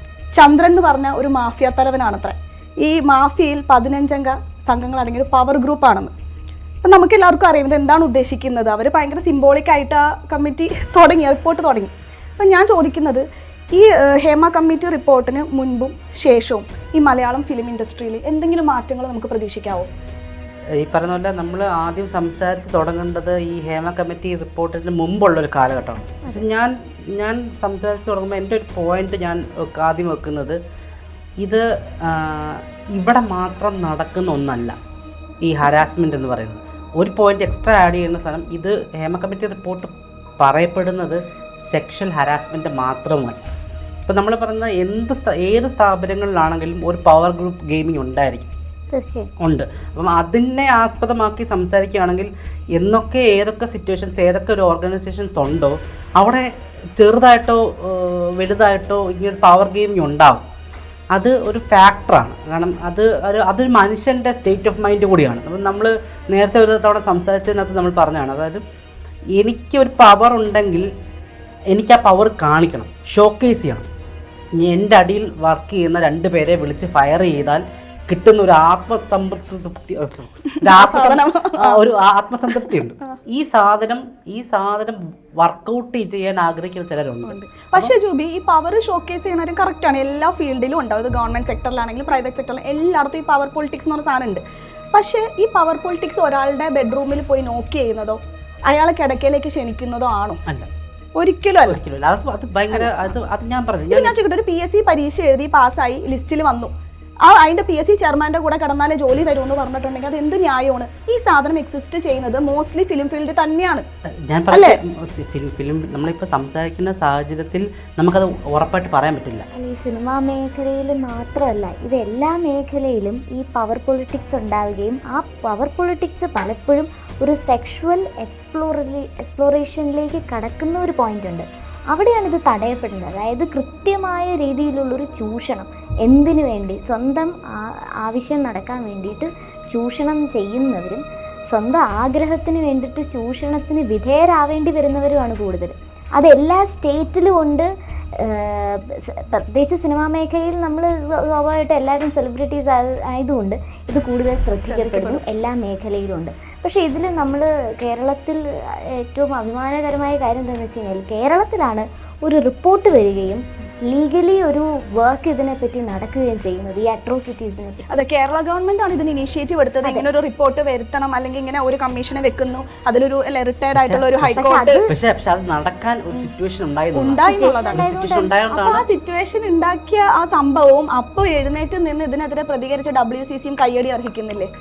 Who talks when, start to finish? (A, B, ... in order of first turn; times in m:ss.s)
0:00.4-0:06.1 A
0:06.8-0:19.9 A
0:20.8-0:30.6 B
0:31.4-0:34.8 B
0:35.4-0:43.4 B
0:44.1-0:48.5 B
0:48.9-0:49.3 C
0:49.4-1:00.4 B
1:01.1-1:08.6 B
1:09.4-1:10.9 B
1:11.7-1:13.9 B
1:14.6-1:27.9 B
1:20.6-1:21.8 A
1:27.2-1:34.4 A
1:34.9-1:40.4 A
1:41.2-1:41.8 A
1:41.6-1:44.1 B
1:43.9-1:46.7 A
1:47.2-1:53.8 A
1:54.2-1:59.4 B
1:54.5-1:54.8 A
1:59.5-2:48.0 C
2:34.6-2:35.2 A
2:47.9-2:54.8 A
2:53.7-2:58.8 B
2:54.3-2:54.9 C
2:56.9-2:57.9 A
2:57.2-2:58.6 C
2:58.6-3:04.5 A